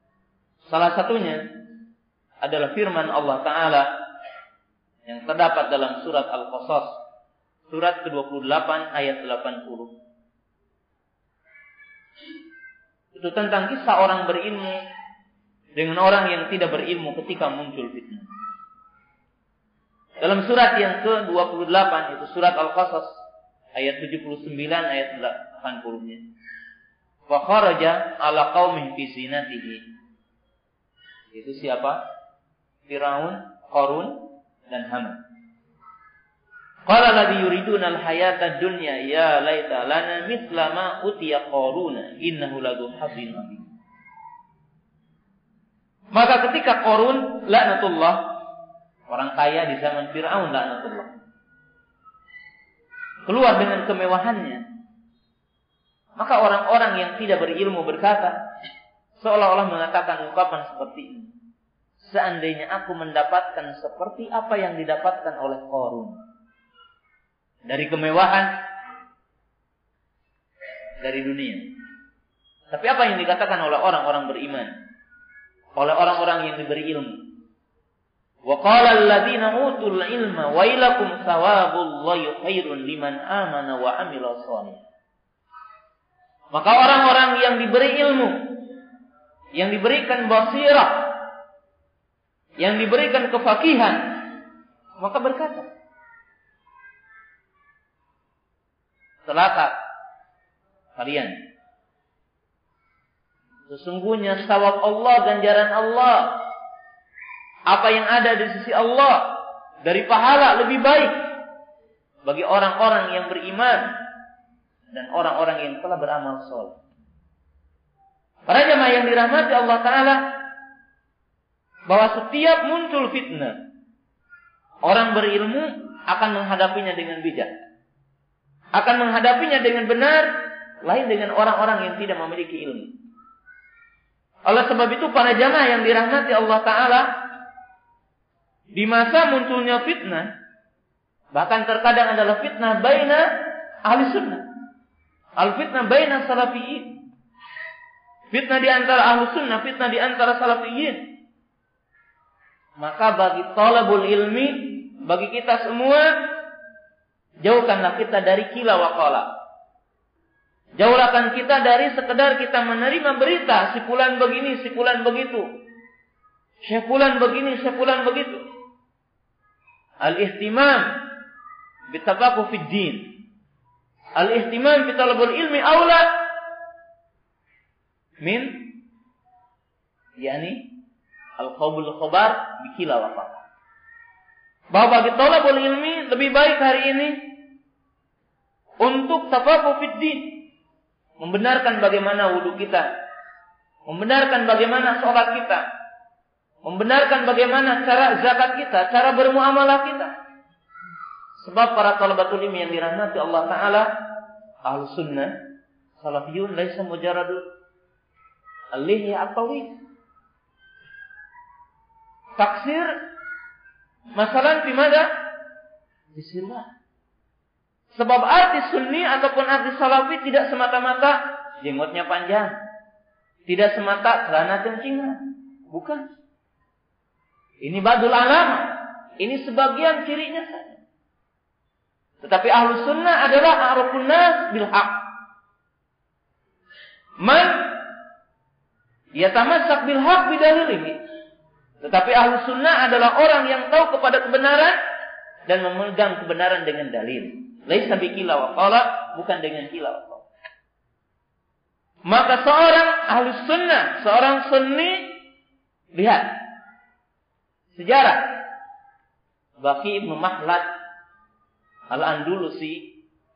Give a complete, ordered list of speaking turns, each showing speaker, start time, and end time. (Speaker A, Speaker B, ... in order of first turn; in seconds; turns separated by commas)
Speaker A: 0.7-1.4, Speaker A: 2.4-3.9, Speaker A: 5.0-7.0, Speaker A: 7.7-9.9, Speaker A: 13.1-14.8, Speaker A: 15.7-18.3, Speaker A: 20.2-23.2, Speaker A: 23.7-26.2, Speaker A: 27.3-29.8, Speaker A: 31.3-32.0, Speaker A: 32.9-35.2, Speaker A: 36.9-43.7, Speaker A: 46.1-48.3, Speaker A: 49.1-51.1, Speaker A: 53.3-54.6, Speaker A: 56.2-58.4, Speaker A: 59.2-61.3, Speaker A: 62.0-66.2, Speaker A: 67.7-68.5, Speaker A: 71.0-71.6, Speaker A: 72.7-74.7, Speaker A: 75.8-77.2, Speaker A: 78.5-84.8, Speaker A: 86.5-88.5, Speaker A: 89.5-91.1, Speaker A: 92.6-94.3, Speaker A: 95.0-95.7, Speaker A: 99.2-99.7, Speaker A: 101.0-101.3, Speaker A: 103.7-106.4, Speaker A: 107.7-109.3, Speaker A: 109.8-111.2, Speaker A: 112.2-113.9, Speaker A: 114.9-116.8, Speaker A: 118.5-120.2, Speaker A: 121.9-123.6, Speaker A: 124.8-127.6, Speaker A: 128.7-130.3, Speaker A: 130.8-132.9, Speaker A: 134.4-137.1, Speaker A: 138.7-140.3, Speaker A: 141.3-143.3, Speaker A: 143.8-144.4, Speaker A: 145.4-147.0, Speaker A: 148.3-151.0, Speaker A: 152.8-156.1, Speaker A: 157.4-159.3, Speaker A: 160.8-165.4, Speaker A: 166.6-168.4, Speaker A: 170.0-170.9, Speaker A: 171.9-173.1, Speaker A: 174.2-176.1, Speaker A: 178.2-178.6, Speaker A: 180.2-180.6, Speaker A: 181.4-183.4, Speaker A: 184.7-187.2, Speaker A: 188.8-190.4, Speaker A: 191.2-192.9, Speaker A: 193.9-195.6, Speaker A: 196.6-200.1, Speaker A: 201.4-203.9, Speaker A: 204.6-205.3, Speaker A: 206.0-207.4, Speaker A: 208.7-209.7, Speaker A: 212.4-212.9, Speaker A: 214.1-215.1, Speaker A: 216.1-216.7, Speaker A: 217.9-222.6, Speaker A: 223.5-226.1, Speaker A: 227.6-230.8, Speaker A: 232.2-235.0, Speaker A: 237.2-237.7, Speaker A: 239.1-241.0, Speaker A: 241.8-244.8, Speaker A: 245.5-250.3, Speaker A: 252.1-255.1, Speaker A: 255.9-256.4, Speaker A: 257.7-258.4, Speaker A: 259.6-260.6, Speaker A: 261.9-262.9